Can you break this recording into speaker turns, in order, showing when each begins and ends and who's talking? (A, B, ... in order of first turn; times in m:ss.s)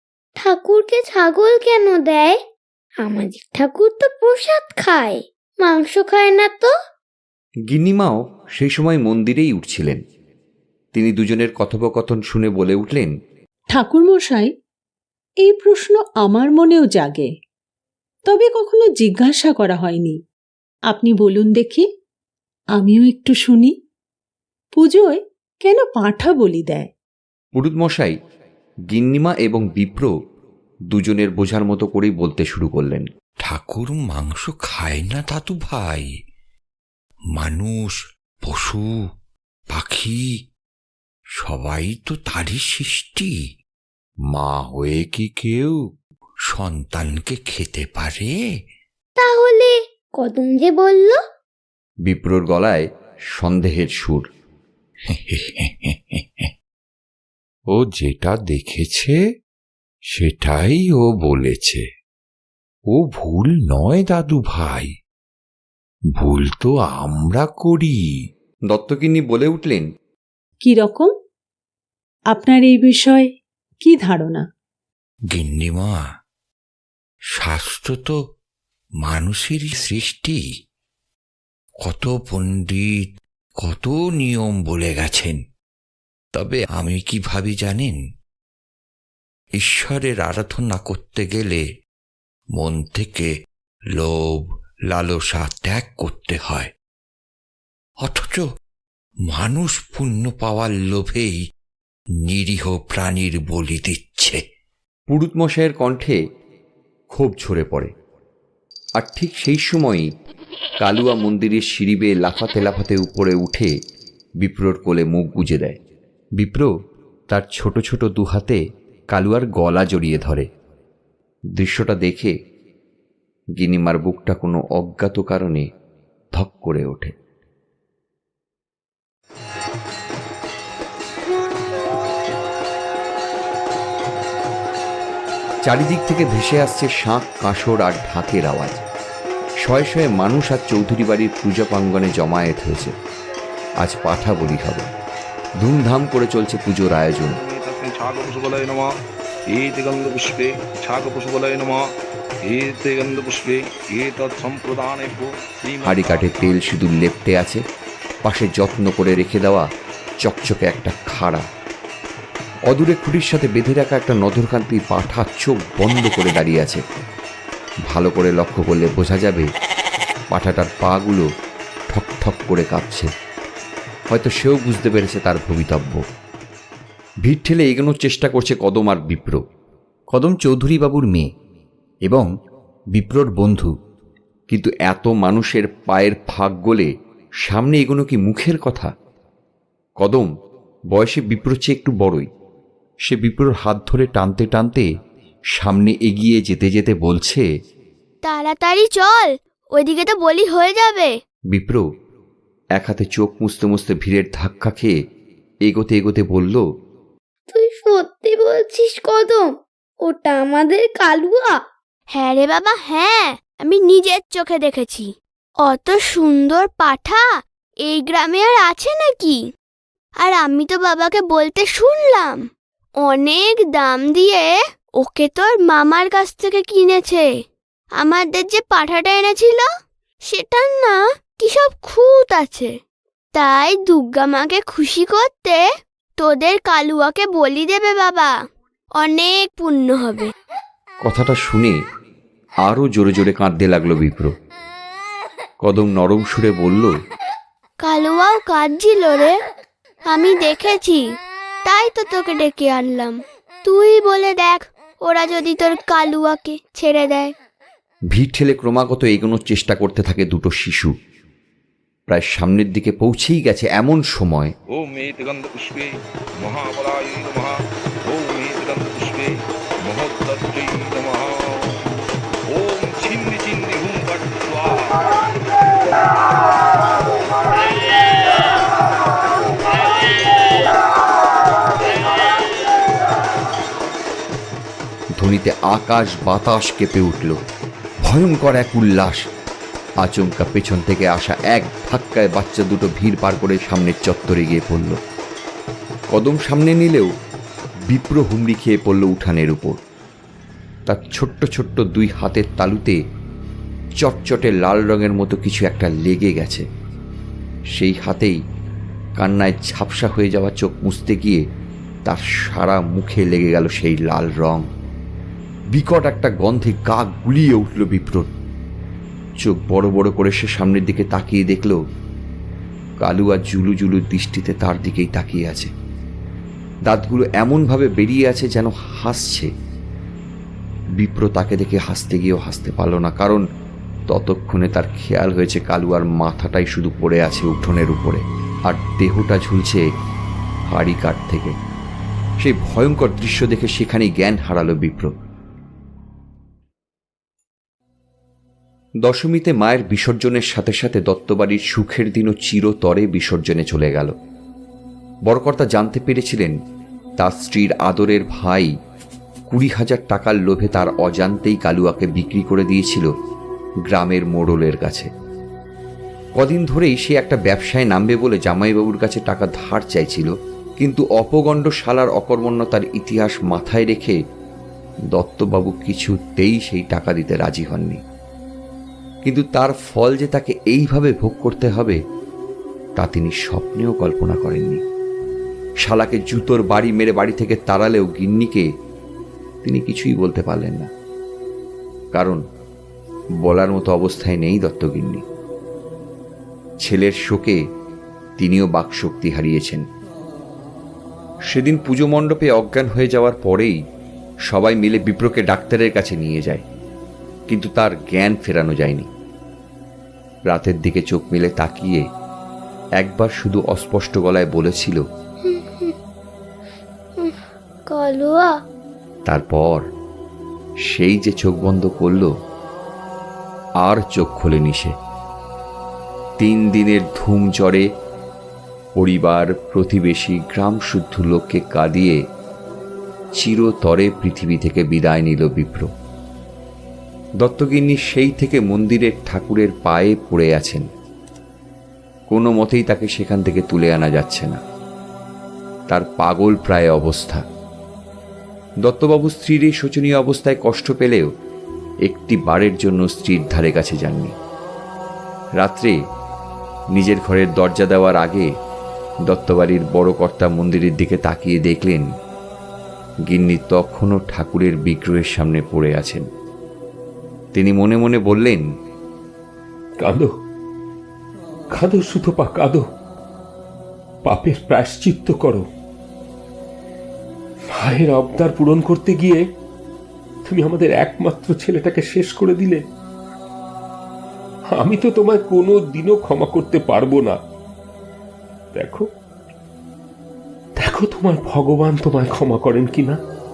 0:00.4-0:02.4 A
0:03.0-0:06.7 A
0:07.7-0:10.0 B
0:10.9-0:13.1 B
0:13.7-0:14.5 C
0:15.4-0:17.3 C
0:18.2-0:20.2 C
0:20.9-0:21.8 C
0:22.8-0:23.7 C
0:24.8-0:26.9 C
0:27.6-0:28.1 B
0:28.9-0:30.1 B
0:30.9-0:33.1 B
0:33.4-0:36.0 D
0:37.4-0:38.9 D
0:39.7-0:40.2 D
0:41.4-0:43.3 D
0:44.3-0:45.7 B
0:46.5-0:48.3 D
0:49.2-0:51.2 A
0:52.0-0:54.2 B
0:55.1-0:56.5 D
0:57.9-0:59.1 D
1:00.2-1:01.8 D
1:02.9-1:04.9 D
1:06.2-1:08.0 D
1:08.7-1:09.9 B
1:10.6-1:11.1 C
1:12.3-1:13.3 C
1:13.8-1:14.4 C
1:15.3-1:16.0 D
1:17.3-1:18.2 D
1:19.0-1:20.4 D
1:21.8-1:23.1 D
1:23.6-1:25.4 D
1:26.3-1:28.0 D
1:29.6-1:31.6 D
1:32.5-1:33.3 D
1:34.0-1:36.7 D
1:38.0-1:38.4 D
1:39.2-1:41.4 D
1:42.2-1:44.4 D
1:45.1-1:46.2 B
1:47.1-1:47.9 B
1:49.0-1:50.1 B
1:50.8-1:53.7 B
1:54.4-1:55.8 B
1:56.4-1:56.7 B
1:57.3-1:58.6 B
1:59.1-2:00.5 B
2:01.5-2:02.3 B
2:03.6-2:05.6 B
2:06.3-2:07.1 B
2:15.6-2:18.8 B
2:19.6-2:22.9 B
2:23.8-2:24.9 B
2:25.6-2:27.4 B
2:27.4-2:28.9 E
2:29.5-2:31.8 E
2:32.5-2:36.6 E
2:35.8-2:37.6 B
2:38.2-2:39.7 B
2:40.2-2:41.4 B
2:42.7-2:46.8 B
2:47.9-2:49.5 B
2:50.3-2:51.3 B
2:51.9-2:53.1 B
2:54.1-2:56.0 B
2:57.2-2:59.4 B
3:00.1-3:01.3 B
3:02.9-3:03.7 B
3:04.5-3:06.9 B
3:07.4-3:08.9 B
3:10.0-3:10.3 B
3:10.9-3:12.2 B
3:13.0-3:14.9 B
3:15.5-3:17.4 B
3:18.2-3:21.1 F
3:21.5-3:21.8 B
3:22.8-3:24.9 B
3:25.6-3:26.6 B
3:27.5-3:29.5 A
3:30.0-3:31.6 A
3:32.1-3:35.1 F
3:35.6-3:37.3 F
3:37.8-3:39.4 F
3:40.2-3:42.4 F
3:43.0-3:44.5 F
3:45.0-3:47.2 F
3:48.0-3:49.7 F
3:50.2-3:52.7 F
3:53.3-3:55.6 F
3:56.2-3:58.3 F
3:59.0-4:00.3 F
4:01.0-4:01.8 B
4:02.6-4:04.3 B
4:05.6-4:06.9 B
4:07.8-4:09.3 F
4:10.1-4:11.0 F
4:11.6-4:17.3 F
4:18.1-4:20.9 B
4:22.1-4:24.5 B
4:24.7-4:25.9 E
4:26.4-4:29.3 E
4:29.8-4:31.8 E
4:32.5-4:35.1 E
4:45.2-4:47.4 B
4:48.0-4:49.3 B
4:50.0-4:55.0 B
4:56.1-4:57.1 B
4:57.9-4:59.8 B
5:00.9-5:03.0 B
5:04.0-5:06.6 B
5:07.8-5:08.4 B
5:09.2-5:11.4 B
5:12.0-5:14.6 B
5:15.7-5:18.3 B
5:19.4-5:21.8 B
5:23.0-5:25.7 B
5:26.8-5:29.5 B
5:31.0-5:33.4 B
5:34.1-5:39.8 B
5:40.7-5:41.6 B
5:42.4-5:45.1 B
5:49.0-5:54.1 B
5:55.2-5:56.5 B
5:57.2-5:58.7 B
5:59.5-6:03.1 B
6:03.9-6:05.1 B
6:06.4-6:14.2 B
6:15.1-6:18.0 B
6:19.2-6:22.0 B
6:23.0-6:24.8 B
6:25.8-6:28.7 B
6:29.6-6:30.9 B
6:32.1-6:32.4 B
6:33.4-6:35.2 B
6:36.8-6:37.6 B
6:38.4-6:39.8 B
6:41.5-6:43.8 B
6:44.5-6:46.6 B
6:47.5-6:49.1 B
6:50.5-6:52.0 B
6:53.0-6:55.0 B
6:55.4-6:55.9 A
6:57.2-6:58.6 A
6:59.3-6:59.8 B
7:00.9-7:02.3 B
7:03.8-7:04.9 B
7:06.4-7:07.8 B
7:09.0-7:12.2 B
7:13.4-7:15.9 B
7:17.4-7:20.8 B
7:22.3-7:24.6 B
7:25.9-7:27.4 B
7:28.8-7:31.3 B
7:32.0-7:34.3 B
7:35.6-7:36.0 B
7:36.9-7:38.5 B
7:39.3-7:42.0 B
7:43.3-7:46.2 B
7:47.5-7:48.6 B
7:50.0-7:50.3 G
7:51.7-7:52.8 G
7:54.2-7:55.6 G
7:57.7-7:59.4 G
8:00.4-8:02.8 G
8:04.7-8:07.4 G
8:08.7-8:09.1 G
8:10.8-8:13.2 G